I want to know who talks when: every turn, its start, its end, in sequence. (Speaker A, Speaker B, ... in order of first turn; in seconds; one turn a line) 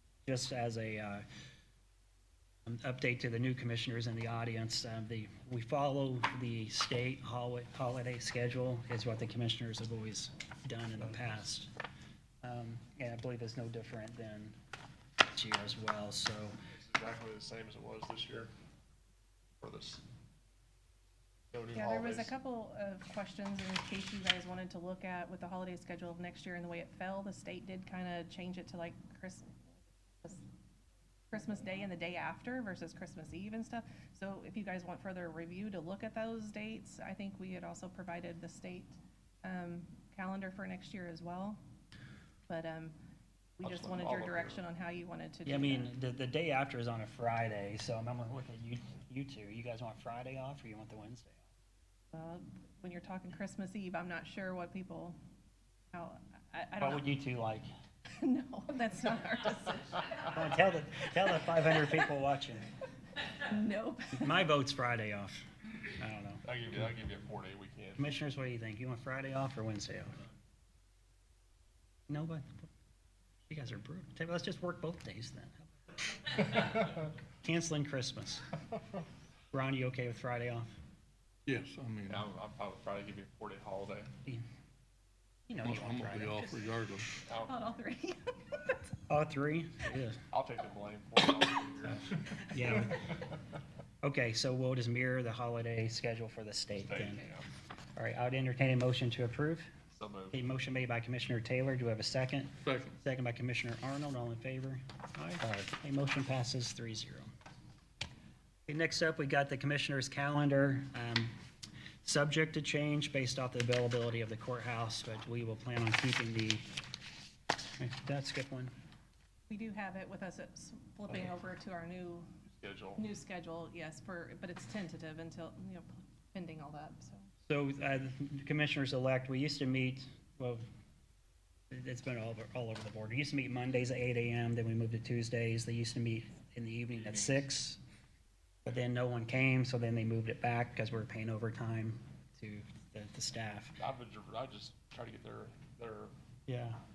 Speaker A: 0.2-1.2
Speaker A: 2.6-11.7
Speaker A: 12.4-14.6
Speaker A: 15.3-16.6
Speaker B: 16.7-18.5
Speaker B: 19.6-20.0
Speaker B: 21.5-22.3
Speaker C: 21.7-30.4
Speaker C: 31.3-41.6
Speaker C: 42.5-43.0
Speaker C: 43.6-45.9
Speaker B: 43.6-44.6
Speaker A: 45.4-51.4
Speaker C: 52.1-55.2
Speaker C: 55.9-57.1
Speaker A: 56.8-57.7
Speaker C: 58.1-60.4
Speaker A: 60.3-62.6
Speaker C: 63.4-64.3
Speaker A: 64.1-65.4
Speaker A: 66.0-66.6
Speaker B: 66.4-68.1
Speaker A: 68.0-70.2
Speaker A: 72.1-72.7
Speaker A: 73.5-75.8
Speaker A: 76.3-76.9
Speaker A: 77.4-78.5
Speaker A: 79.5-80.7
Speaker D: 81.5-82.2
Speaker B: 82.1-84.1
Speaker A: 85.5-86.6
Speaker D: 85.6-87.1
Speaker B: 87.2-87.6
Speaker C: 87.4-88.8
Speaker A: 89.1-90.2
Speaker B: 90.3-92.4
Speaker A: 92.5-93.0
Speaker A: 94.0-97.3
Speaker B: 96.8-97.5
Speaker A: 98.0-99.7
Speaker B: 99.9-100.4
Speaker A: 100.3-107.3
Speaker D: 102.6-102.9
Speaker A: 108.7-111.3
Speaker A: 112.0-116.7
Speaker A: 117.8-118.7
Speaker C: 119.5-122.2
Speaker B: 122.5-123.0
Speaker C: 123.0-127.3
Speaker A: 127.5-130.6
Speaker A: 131.7-137.8
Speaker B: 136.9-137.4
Speaker A: 138.6-143.8
Speaker B: 143.8-146.1
Speaker A: 146.5-146.8